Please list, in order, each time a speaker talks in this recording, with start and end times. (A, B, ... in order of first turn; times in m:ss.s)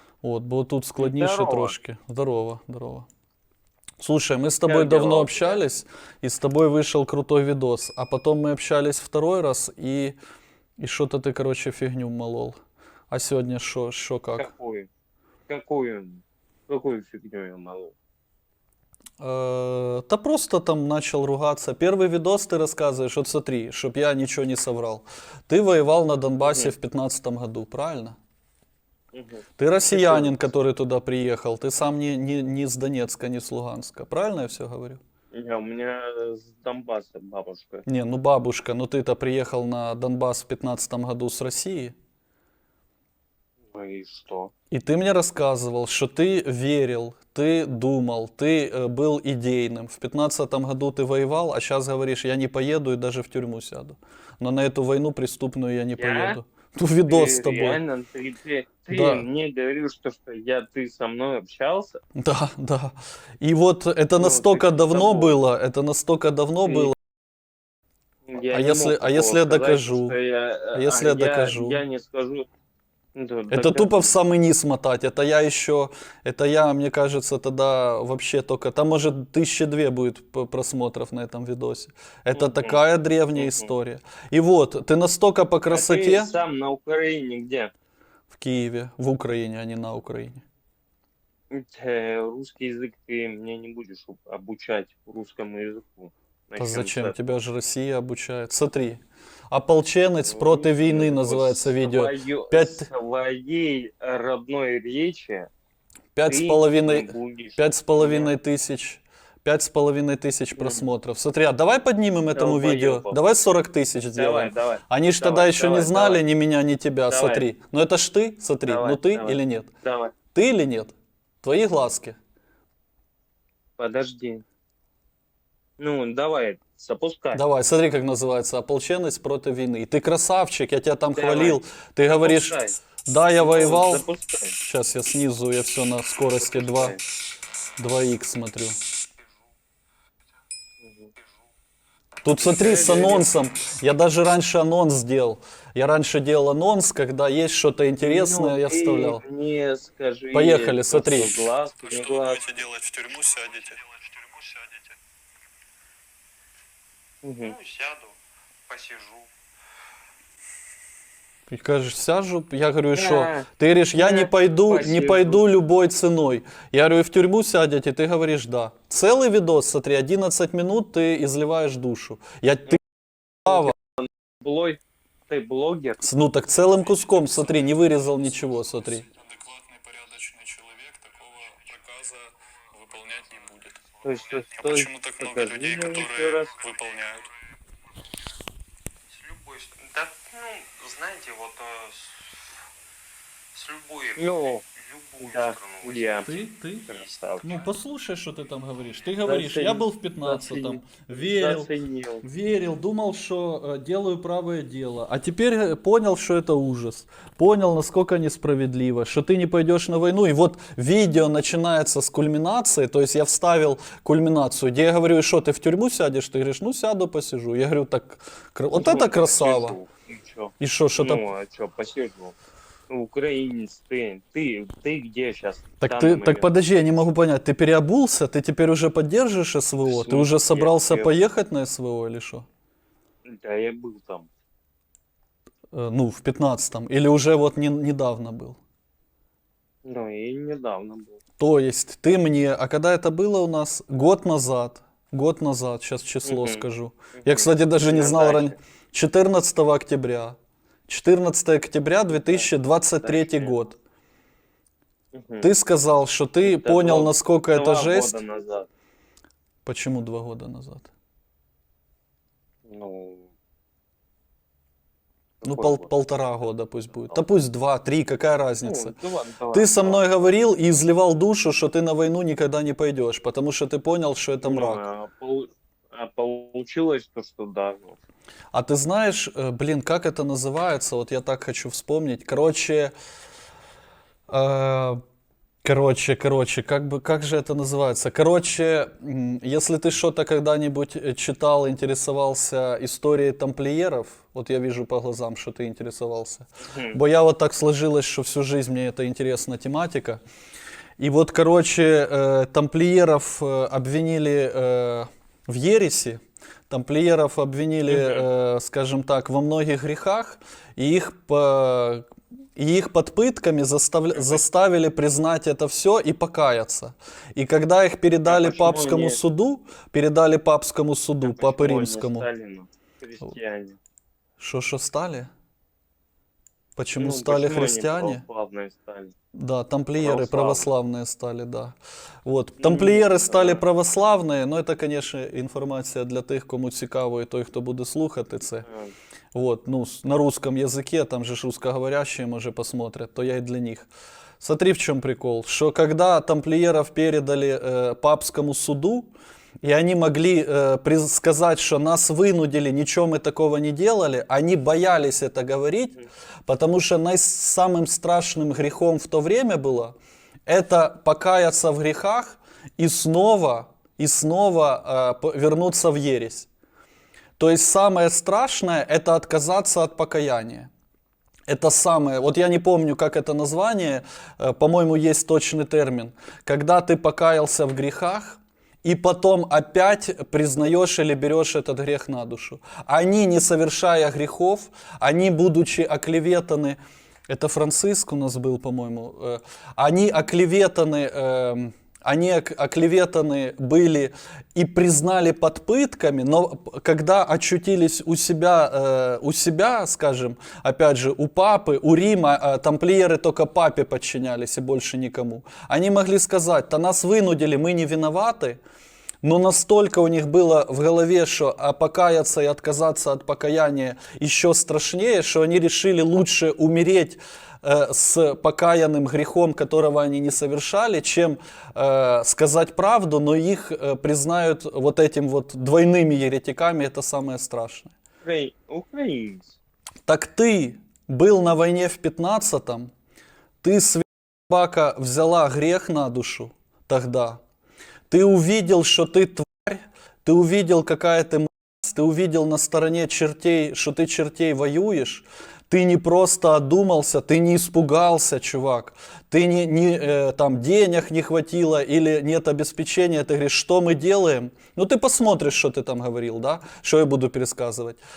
0:00.2-0:03.1 A
0:01.0-0:01.7 B
0:04.0-0:10.2 A
0:04.6-0:05.6 B
0:10.8-0:12.6 A
0:13.1-0:14.5 A
0:14.3-0:14.9 B
0:15.5-0:17.9 B
0:19.2-0:28.2 A
0:26.4-0:26.7 B
0:29.1-0:30.4 B
0:29.6-0:35.0 A
0:35.3-0:37.8 B
0:37.8-0:41.9 A
0:43.7-0:44.5 B
0:44.7-0:57.8 A
0:56.0-0:56.4 B
0:57.1-1:02.0 B
0:58.9-0:59.2 A
1:02.2-1:07.0 A
1:04.2-1:05.4 B
1:06.6-1:06.9 B
1:08.2-1:12.4 B
1:08.5-1:10.1 A
1:10.7-1:11.8 A
1:13.1-1:14.1 B
1:13.5-1:26.3 A
1:22.3-1:22.8 B
1:23.4-1:23.7 B
1:25.7-1:27.7 B
1:28.3-1:30.4 A
1:31.5-1:37.1 B
1:36.6-1:42.9 A
1:40.2-1:45.5 B
1:46.1-1:59.7 A
1:46.3-1:48.3 B
1:50.6-1:50.8 B
1:52.3-1:53.2 B
1:54.1-1:56.2 B
1:57.1-1:57.4 B
1:58.6-2:00.1 B
2:00.3-2:02.2 A
2:03.8-2:04.4 B
2:05.8-2:07.4 B
2:07.3-2:14.0 A
2:11.1-2:12.8 B
2:13.4-2:14.6 B
2:14.6-2:17.0 A
2:16.4-2:17.0 B
2:17.8-2:18.8 A
2:20.8-2:21.1 B
2:22.2-2:29.2 A
2:22.3-2:23.3 B
2:28.0-2:32.5 B
2:30.3-2:33.8 A
2:33.2-2:34.8 C
2:37.2-2:37.6 B
2:37.4-2:38.2 C
2:38.7-2:39.3 C
2:41.5-2:52.8 A
2:42.9-2:45.4 B
2:53.4-2:53.7 A
2:53.5-2:56.0 B
2:56.0-3:03.8 A
3:04.0-3:06.5 B
3:04.6-3:07.2 A
3:05.7-3:06.9 C
3:09.1-3:12.5 C
3:13.5-3:16.3 C
3:14.2-3:14.6 B
3:15.3-3:16.3 B
3:16.2-3:16.9 A
3:16.9-3:17.6 B
3:17.4-3:21.7 A
3:19.2-3:22.2 B
3:22.2-3:39.8 A
3:38.7-3:42.4 B
3:40.6-3:41.2 A
3:42.9-3:46.5 B
3:45.8-3:52.4 A
3:49.8-3:51.1 B
3:53.2-3:54.3 B
3:55.7-3:58.6 A
3:59.8-4:01.2 B
4:01.4-4:10.4 A
4:06.2-4:06.6 B
4:07.2-4:08.5 B
4:10.9-4:13.8 A
4:12.1-4:12.5 B
4:13.0-4:13.6 B
4:15.1-4:15.5 B
4:15.4-4:18.2 A
4:16.4-4:18.7 B
4:19.6-4:20.9 A
4:22.6-4:23.3 B
4:25.4-4:25.9 B
4:25.4-4:28.9 A
4:28.6-4:30.3 B
4:29.5-4:34.8 A
4:34.4-4:38.0 B
4:38.5-4:42.9 A
4:44.3-4:45.0 A
4:45.6-5:00.2 A
4:56.7-4:57.0 B
5:01.0-5:22.3 A
5:07.9-5:08.2 B
5:18.2-5:19.2 B
5:21.2-5:23.8 B
5:24.4-5:25.3 A
5:26.8-5:28.2 A
5:27.0-5:29.1 B
5:29.3-5:38.7 A
5:30.0-5:30.7 B
5:32.6-5:33.6 B
5:38.6-5:38.9 B
5:39.3-5:43.9 A
5:44.4-5:49.1 A
5:49.6-5:55.9 A
5:56.5-6:00.0 A
6:00.5-6:06.5 A
6:07.4-6:10.7 A
6:11.5-6:26.8 A
6:27.3-6:48.6 A
6:49.2-7:07.9 A
7:08.2-7:09.6 B
7:10.0-7:12.9 A
7:13.6-7:17.4 A
7:18.1-7:38.0 A